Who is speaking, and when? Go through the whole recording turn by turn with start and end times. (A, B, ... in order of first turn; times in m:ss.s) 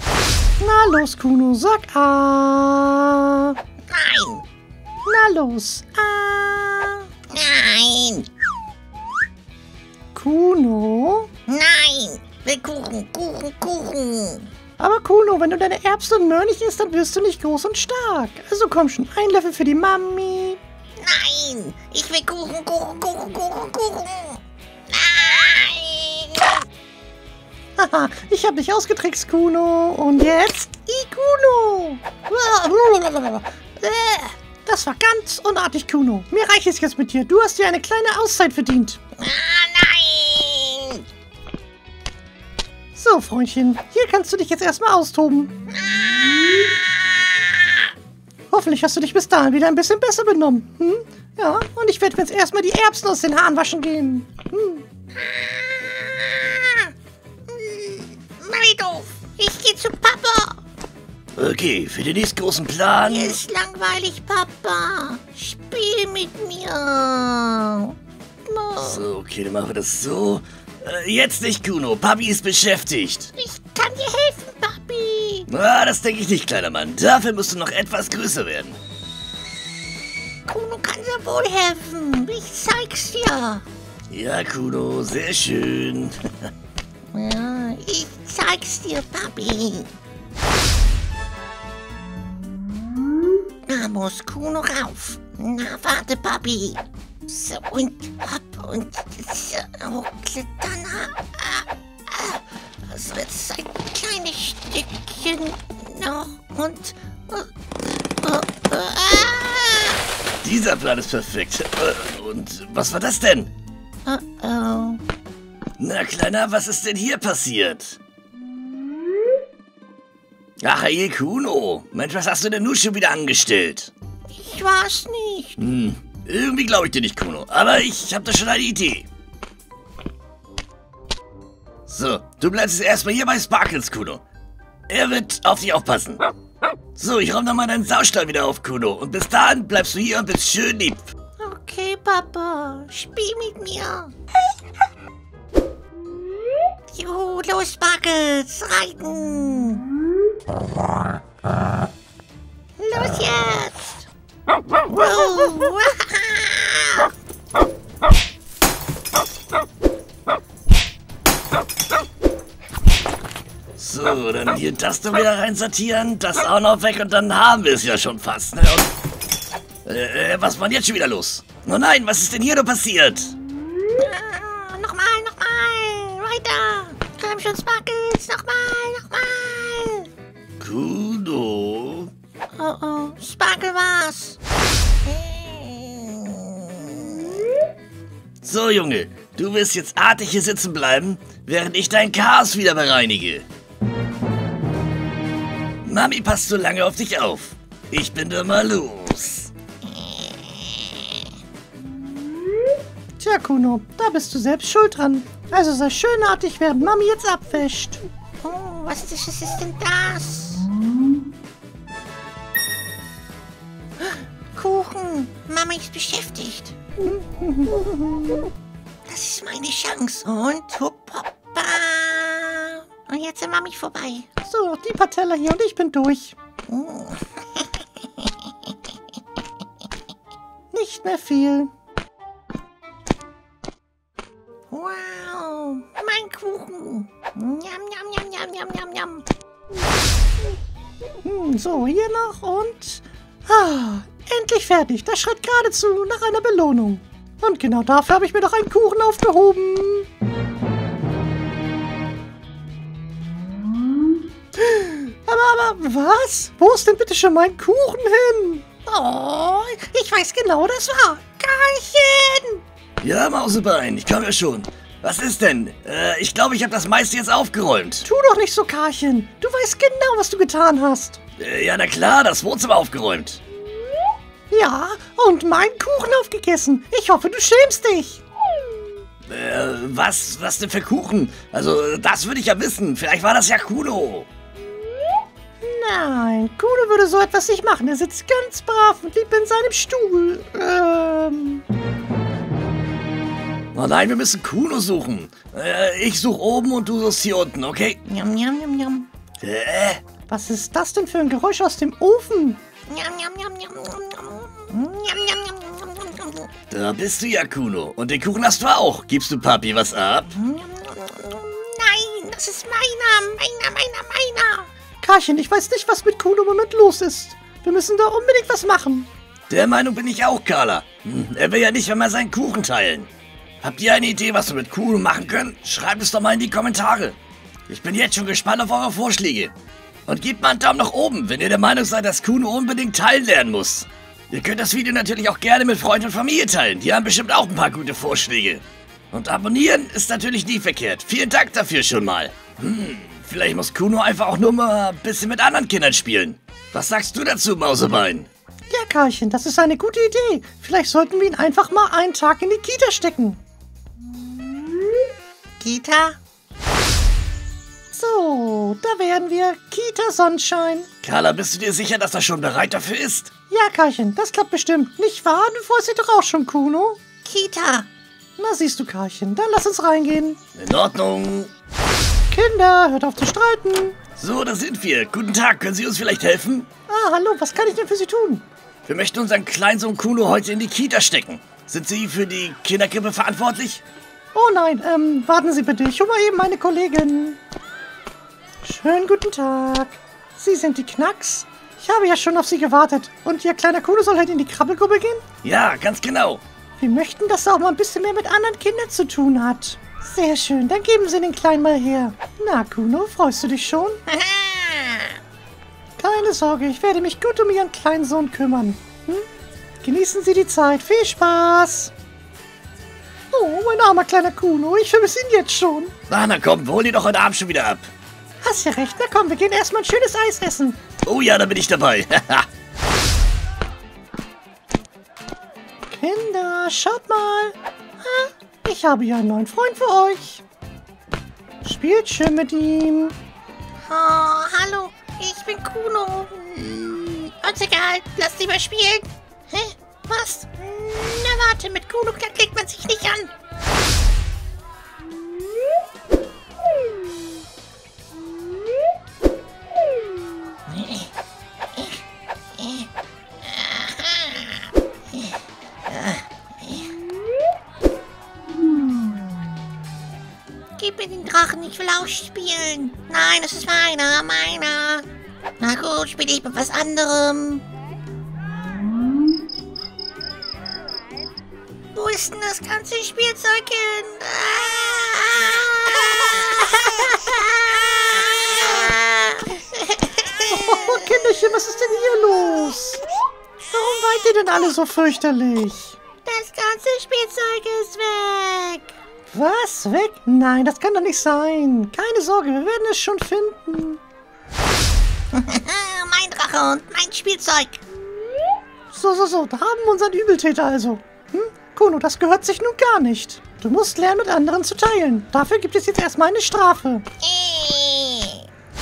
0:00.6-0:03.6 A
0:03.9-0:04.4 B
0:05.0-0:07.0 A
0:07.3-0:08.3 B
0:10.1-0:11.3 A
0:11.5-0:14.5 B
0:14.8-0:20.6 A
0:21.0-0:26.5 B
0:27.8-0:39.0 A
0:39.2-0:41.0 B
0:42.9-0:45.5 A
0:45.8-0:46.8 B
0:48.5-0:54.8 A
0:55.2-0:56.9 B
0:57.5-1:00.6 B
1:01.3-1:03.4 C
1:03.0-1:07.9 B
1:08.4-1:09.0 B
1:08.8-1:13.3 C
1:13.4-1:15.5 B
1:15.5-1:18.8 C
1:20.5-1:23.6 B
1:24.1-1:26.2 C
1:27.1-1:29.9 B
1:33.7-1:50.0 B
1:50.4-1:53.5 C
1:54.0-1:55.0 B
1:55.8-1:58.0 C
2:00.6-2:03.9 C
2:04.4-2:05.6 B
2:05.6-2:09.1 C
2:11.9-2:14.2 C
2:14.9-2:16.2 C
2:17.0-2:21.1 C
2:21.4-2:24.1 B
2:26.9-2:29.8 B
2:32.8-2:34.0 B
2:34.9-2:37.1 B
2:43.8-2:48.9 C
2:49.8-2:53.3 C
2:54.0-3:00.1 B
3:00.6-3:02.1 C
3:02.5-3:04.4 B
3:05.0-3:07.3 B
3:08.4-3:13.4 C
3:15.8-3:19.5 C
3:19.8-3:21.0 B
3:23.2-3:28.0 A
3:28.4-3:30.7 B
3:34.5-3:36.7 B
3:37.0-3:38.4 A
3:39.1-3:44.3 B
3:44.4-3:46.3 A
3:46.7-3:47.6 B
3:50.7-3:51.7 A
3:54.7-3:59.2 B
4:01.2-4:10.1 A
4:14.6-4:22.6 A
4:23.0-4:28.1 C
4:28.0-4:31.2 A
4:31.4-4:33.4 C
4:34.5-4:38.2 A
4:39.3-4:44.3 C
4:45.6-4:51.6 A
4:53.7-4:58.0 C
4:58.0-4:59.1 B
4:59.4-5:00.0 C
5:00.3-5:02.6 A
5:02.9-5:06.5 B
5:06.7-5:10.3 C
5:10.3-5:14.7 B
5:15.0-5:19.1 A
5:19.5-5:23.1 C
5:23.6-5:27.2 C
5:27.7-5:29.5 C
5:30.1-5:48.3 C
5:48.7-5:53.4 A
5:55.6-5:56.2 B
5:57.9-6:00.9 A
6:01.0-6:03.3 C
6:03.5-6:07.0 A
6:07.2-6:07.9 B
6:08.4-6:10.4 A
6:10.6-6:11.5 C
6:12.3-6:14.0 A
6:14.2-6:16.7 C
6:16.9-6:18.4 A
6:18.8-6:23.8 C
6:24.3-6:27.4 A
6:28.6-6:35.2 A
6:35.4-6:36.4 C
6:36.8-6:44.0 A
6:44.1-6:45.2 B
6:46.0-6:49.2 A
6:49.8-6:51.9 A
6:53.3-6:55.9 A
6:56.1-6:57.9 C
6:58.4-7:00.8 A
7:01.0-7:02.5 C
7:05.9-7:10.4 A
7:11.6-7:13.1 A
7:13.9-7:23.3 B
7:30.7-7:31.1 B
7:31.7-7:32.0 B
7:32.6-7:32.9 B
7:33.4-7:36.9 B
7:40.8-7:45.0 B
7:45.6-7:47.6 B
7:51.9-8:01.2 B
8:00.5-8:03.0 A
8:03.7-8:06.0 A
8:06.2-8:08.9 B
8:09.3-8:14.0 A
8:15.3-8:17.8 B
8:18.9-8:27.0 A
8:27.2-8:28.4 B